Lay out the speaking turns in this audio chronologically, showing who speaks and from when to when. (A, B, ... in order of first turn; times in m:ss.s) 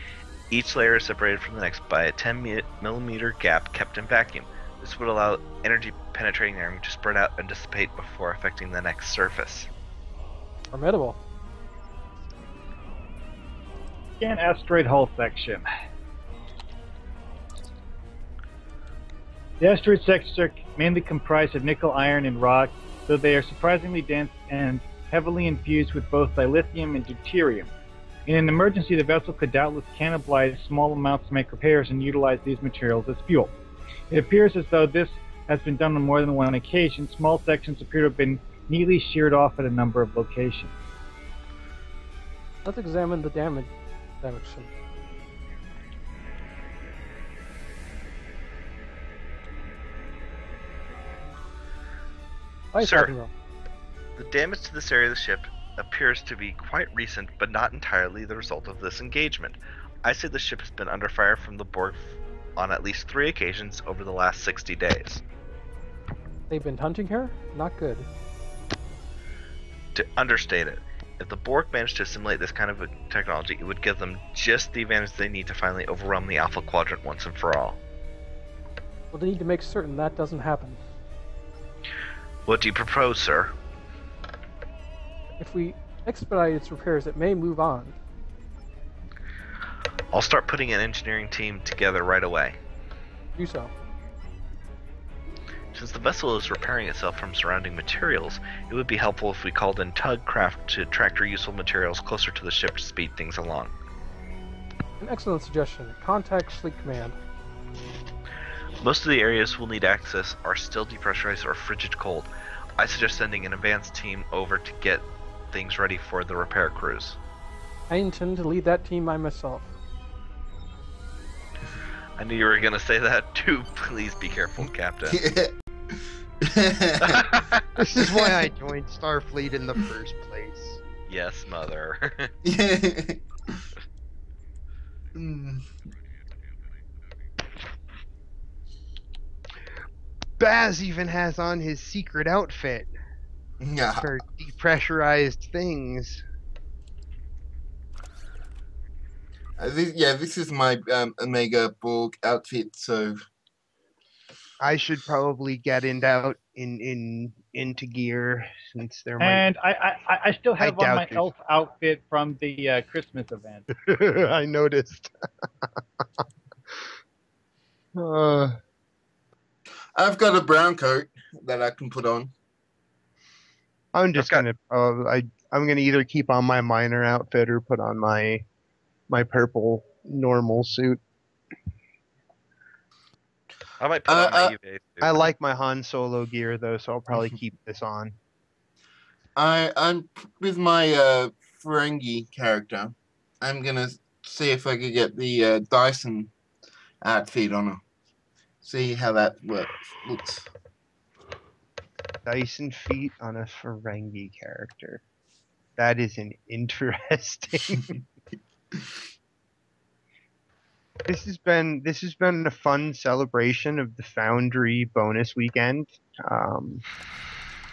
0:00.5-0:09.7 A
0:10.7-0:11.2 B
0:14.2-0:15.7 C
0:19.6-0:27.7 C
0:28.3-0:33.5 C
0:34.1-0:40.8 C
0:42.6-0:43.7 B
0:44.2-0:44.7 B
0:52.7-0:53.3 B
0:52.8-0:53.1 A
0:54.2-1:05.2 A
1:06.5-1:08.1 B
1:10.0-1:17.8 A
1:19.1-1:20.8 B
1:22.5-1:23.5 A
1:25.4-1:28.0 B
1:30.1-1:32.6 A
1:33.4-1:33.7 B
1:35.7-1:43.7 A
1:45.0-1:47.2 B
1:48.8-1:57.2 A
1:57.9-1:59.7 B
2:02.2-2:05.2 A
2:05.1-2:05.6 D
2:06.4-2:07.3 D
2:07.0-2:07.7 A
2:07.8-2:10.8 E
2:08.0-2:08.3 D
2:11.1-2:12.3 A
2:12.4-2:13.6 D
2:15.1-2:15.6 D
2:20.4-2:22.9 E
2:23.6-2:24.1 D
2:24.0-2:26.2 E
2:29.6-2:33.2 D
2:34.6-2:39.5 E
2:39.2-2:43.7 C
2:40.6-2:41.3 E
2:43.7-2:45.7 E
2:48.0-2:48.6 E
2:50.0-2:52.3 D
2:53.9-2:58.4 E
2:54.2-2:54.4 A
2:59.1-3:01.0 E
3:03.8-3:05.3 A
3:04.1-3:04.6 D
3:05.0-3:08.2 E
3:09.4-3:16.3 D
3:17.0-3:17.8 D
3:18.6-3:20.4 D
3:22.2-3:25.0 E
3:25.8-3:28.0 E
3:31.1-3:36.8 E